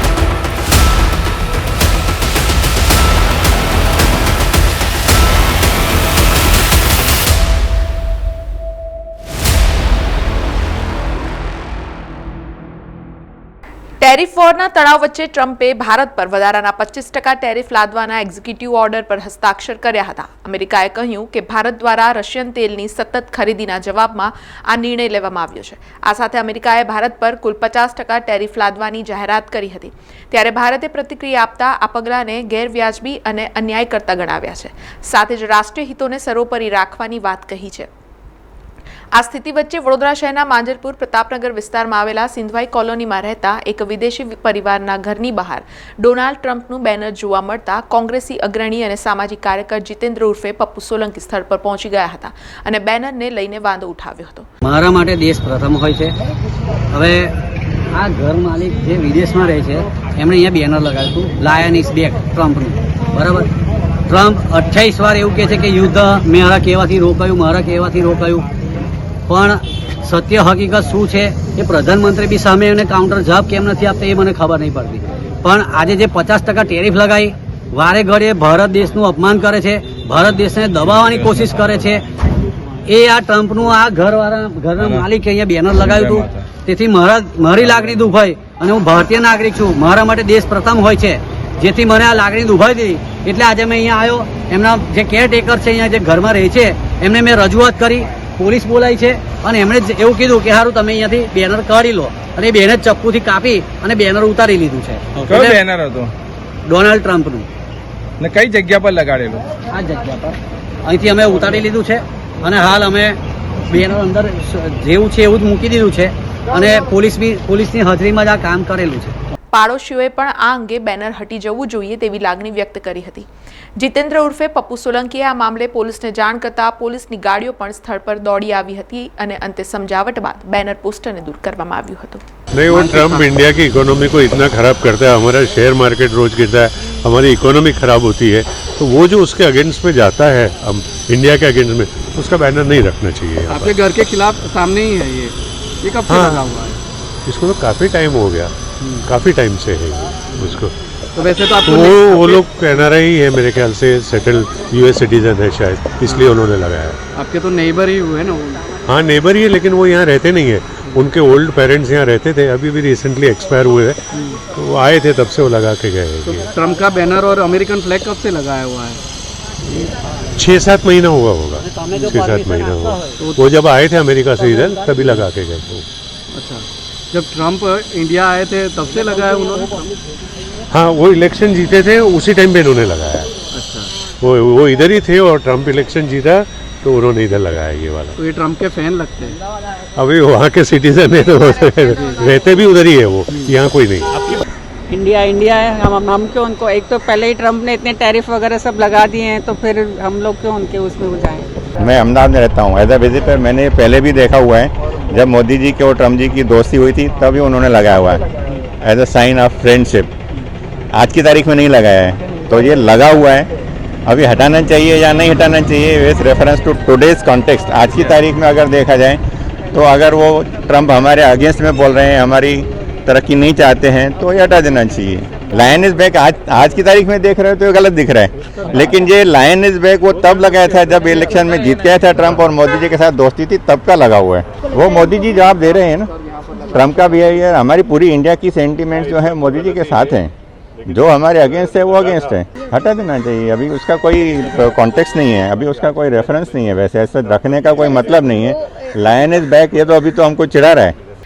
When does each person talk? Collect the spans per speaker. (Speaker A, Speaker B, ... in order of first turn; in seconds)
Speaker A: 14.0-37.9, 39.1-54.5, 119.5-132.2
Speaker B: 54.6-56.1, 56.9-57.3, 57.9-63.5, 64.1-68.5, 69.3-82.0, 82.9-105.6, 106.7-107.5, 109.7-113.2, 113.7-119.1, 171.6-173.2
Speaker C: 84.8-85.0, 85.8-86.5, 105.2-106.1, 108.2-109.4
Speaker D: 132.5-143.7, 146.1-146.4, 147.2-148.5, 149.0-150.7, 151.7-157.0, 158.8-166.5, 170.3-175.8, 180.7-183.3, 184.2-188.2, 189.9-194.4
Speaker E: 132.7-133.2, 143.5-146.8, 151.2-152.4, 157.1-158.7, 166.5-169.0, 176.3-179.9, 183.5-183.9, 188.2-189.4, 236.3-236.7
Speaker F: 194.9-201.5
Speaker G: 201.8-208.2, 208.8-210.1, 210.9-213.5, 214.1-219.2, 219.7-236.1, 236.7-240.3, 240.8-250.9